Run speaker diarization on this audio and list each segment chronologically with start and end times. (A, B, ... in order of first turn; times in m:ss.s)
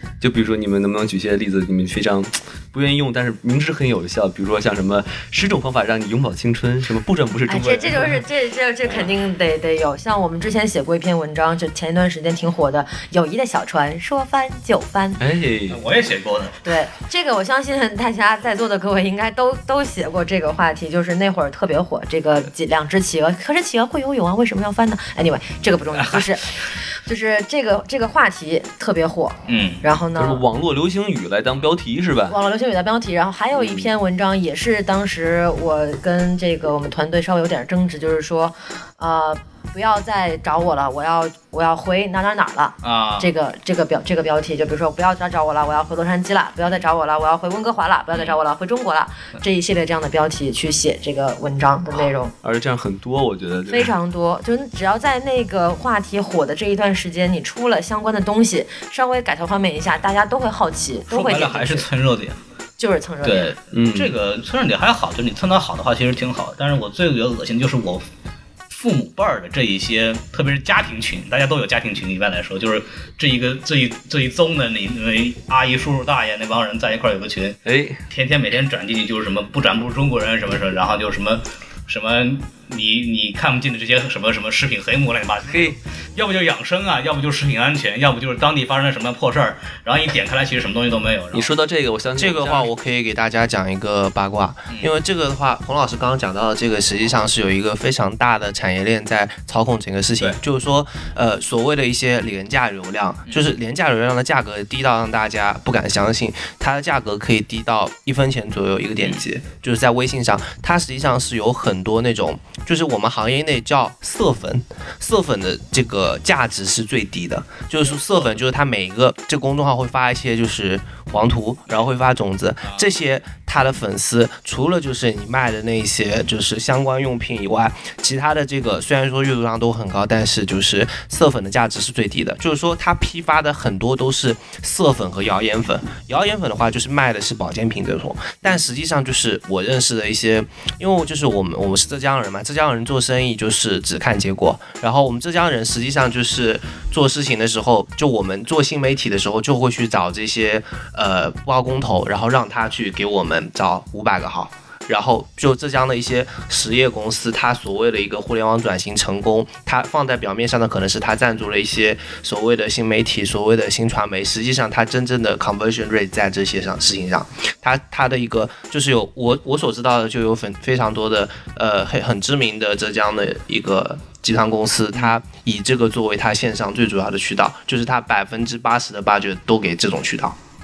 0:00.2-0:08.2 A
0:07.5-0:15.2 B
0:15.2-0:15.8 A
0:15.7-0:16.7 C
0:16.6-0:30.4 B
0:29.5-0:29.8 C
0:30.2-0:32.4 A
0:32.3-0:52.3 B
0:33.5-0:33.9 A
0:42.8-0:43.3 C
0:48.1-0:48.4 C
0:52.4-0:53.9 A
0:53.7-1:01.9 B
1:01.1-1:02.4 C
1:02.8-1:03.5 B
1:03.2-1:08.0 C
1:03.7-1:04.1 A
1:08.7-1:31.5 C
1:17.6-1:18.0 A
1:25.5-1:25.8 A
1:31.3-1:32.7 A
1:32.2-3:00.4 D
1:43.2-1:43.5 C
2:02.6-2:02.9 C